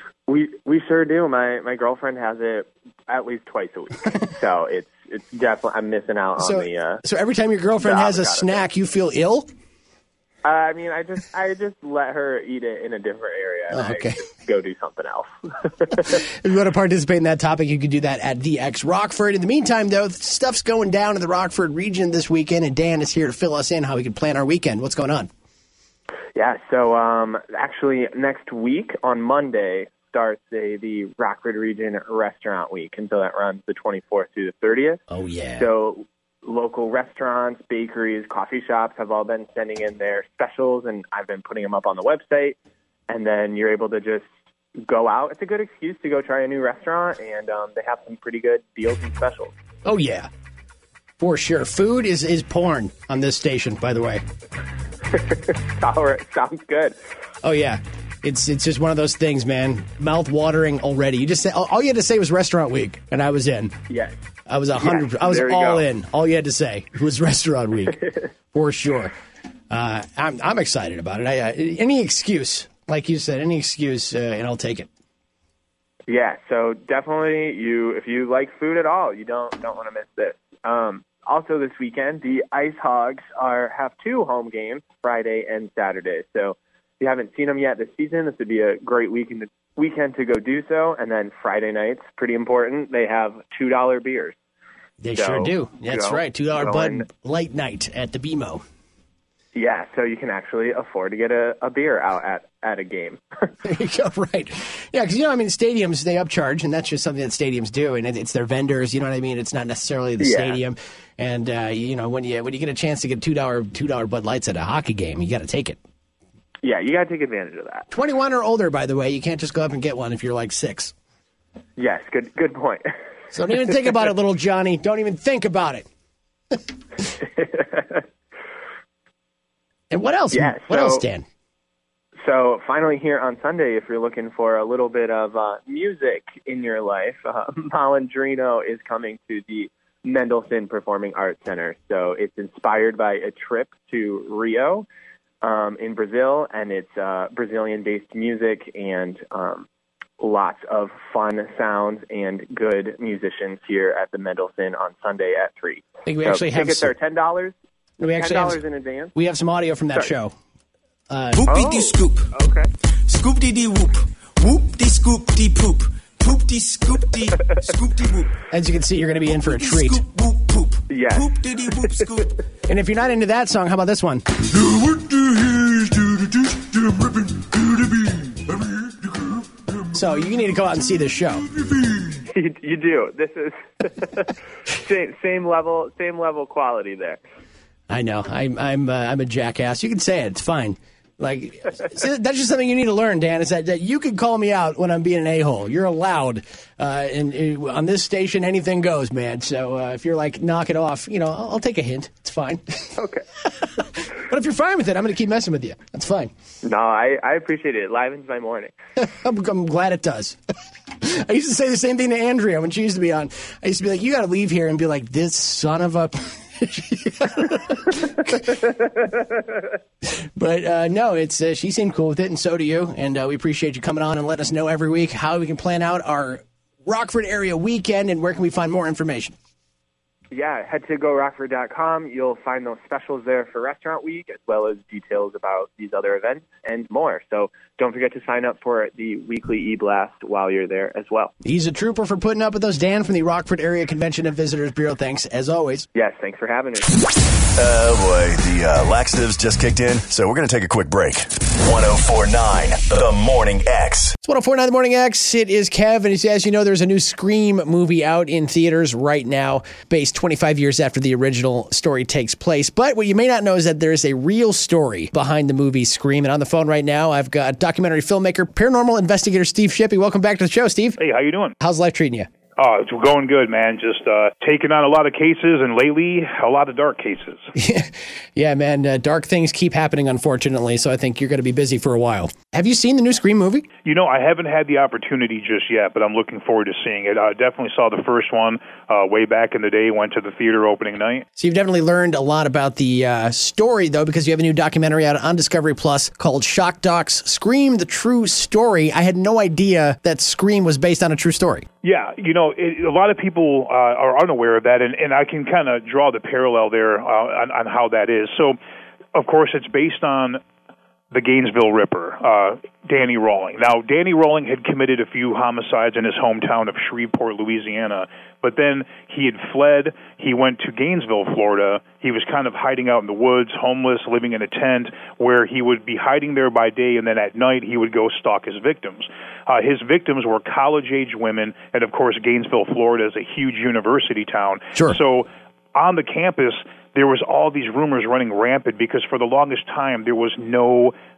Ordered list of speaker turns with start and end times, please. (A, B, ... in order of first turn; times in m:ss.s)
0:00.3-0:07.0 A
0:06.4-0:09.5 B
0:07.8-0:08.6 A
0:10.4-0:16.1 A
0:13.7-0:14.2 B
0:16.1-0:25.3 B
0:26.4-0:35.0 A
0:35.1-0:35.7 B
0:35.5-0:42.6 A
0:43.1-0:49.5 A
0:49.8-0:50.3 B
0:51.2-0:54.2 B
0:55.1-0:57.0 A
0:57.4-1:03.8 B
1:03.9-1:04.2 A
1:04.5-1:08.0 B
1:04.8-1:05.8 A
1:08.5-1:09.1 B
1:09.7-1:14.9 B
1:16.1-1:34.3 A
1:35.0-1:38.6 B
1:35.1-1:37.0 A
1:39.5-1:43.2 A
1:43.6-1:55.8 B
1:50.2-1:50.6 A
1:56.6-1:57.8 A
1:57.9-2:00.9 B
2:01.8-2:02.9 A
2:03.3-2:05.8 B
2:09.9-2:11.2 B
2:10.3-2:11.0 A
2:12.2-2:24.8 A
2:25.4-2:29.6 A
2:30.2-2:37.5 A
2:36.0-2:36.9 B
2:38.0-2:38.6 B
2:38.1-2:39.1 A
2:39.1-2:40.3 B
2:41.1-2:41.5 B
2:41.4-2:42.7 A
2:41.6-2:41.9 C
2:43.1-2:43.9 C
2:44.4-2:47.4 C
2:48.5-2:50.0 B
2:50.2-2:50.8 C
2:50.9-2:52.1 A
2:51.3-2:52.0 C
2:52.7-2:54.2 B
2:59.9-3:01.5 B
3:02.3-3:07.2 A
3:07.9-3:22.7 B
3:23.0-3:23.2 A
3:24.1-3:26.3 B
3:26.6-3:28.7 A
3:29.0-3:30.4 B
3:31.0-3:38.6 B
3:40.4-3:49.3 B
3:50.3-4:01.3 A
4:01.4-4:05.9 B
4:05.9-4:07.0 A
4:07.5-4:14.1 D
4:14.2-4:31.0 B
4:31.0-4:31.5 E
4:31.6-4:32.3 B
4:32.6-4:37.5 E
4:37.5-4:43.6 B
4:43.8-4:51.2 E
4:51.4-5:01.6 B
5:01.8-5:08.6 E
5:09.1-5:10.4 E
5:11.1-5:41.0 E